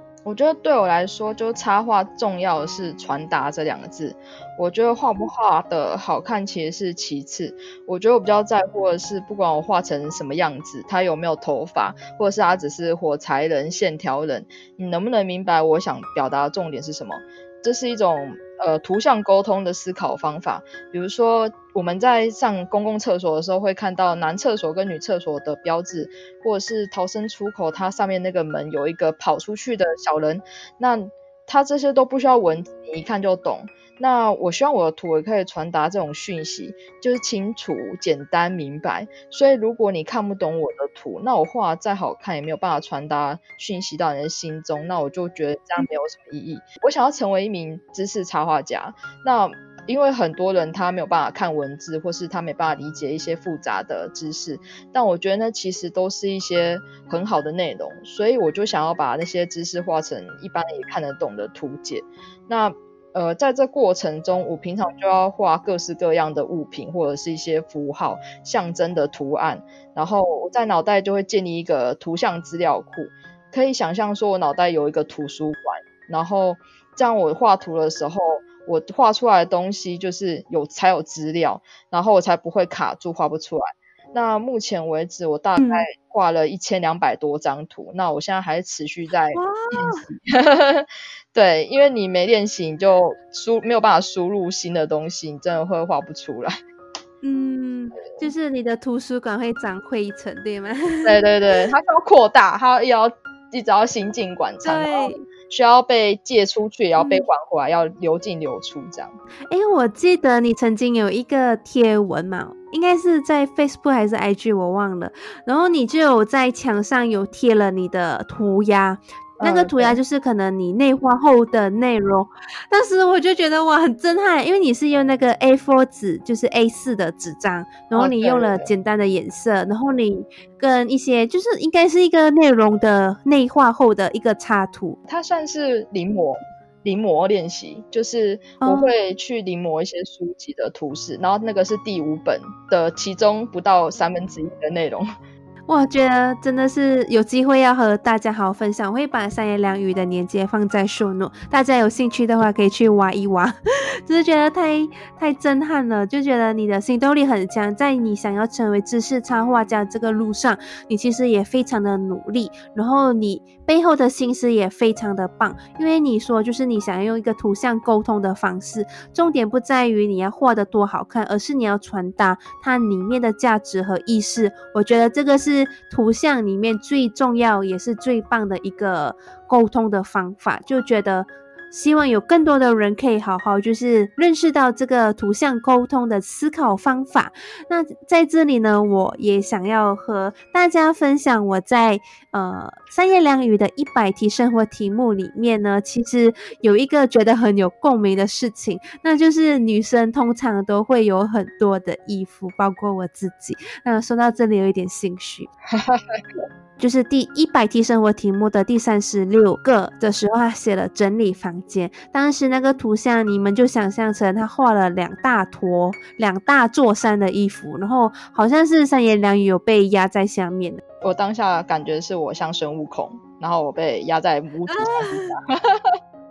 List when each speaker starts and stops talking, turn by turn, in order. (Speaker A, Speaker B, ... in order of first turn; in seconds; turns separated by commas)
Speaker A: 0.2-96.5, Speaker B: 85.6-85.9, Speaker B: 89.3-90.0, Speaker B: 97.2-101.6, Speaker A: 101.0-109.2, Speaker B: 104.6-105.2, Speaker B: 107.0-107.3, Speaker B: 109.5-135.0, Speaker A: 119.4-120.0, Speaker A: 127.9-128.7, Speaker A: 135.1-145.1, Speaker B: 138.6-138.9, Speaker B: 145.7-153.6, Speaker B: 154.1-205.5, Speaker A: 205.7-206.2, Speaker B: 206.8-220.8, Speaker A: 221.0-226.0, Speaker B: 224.7-225.3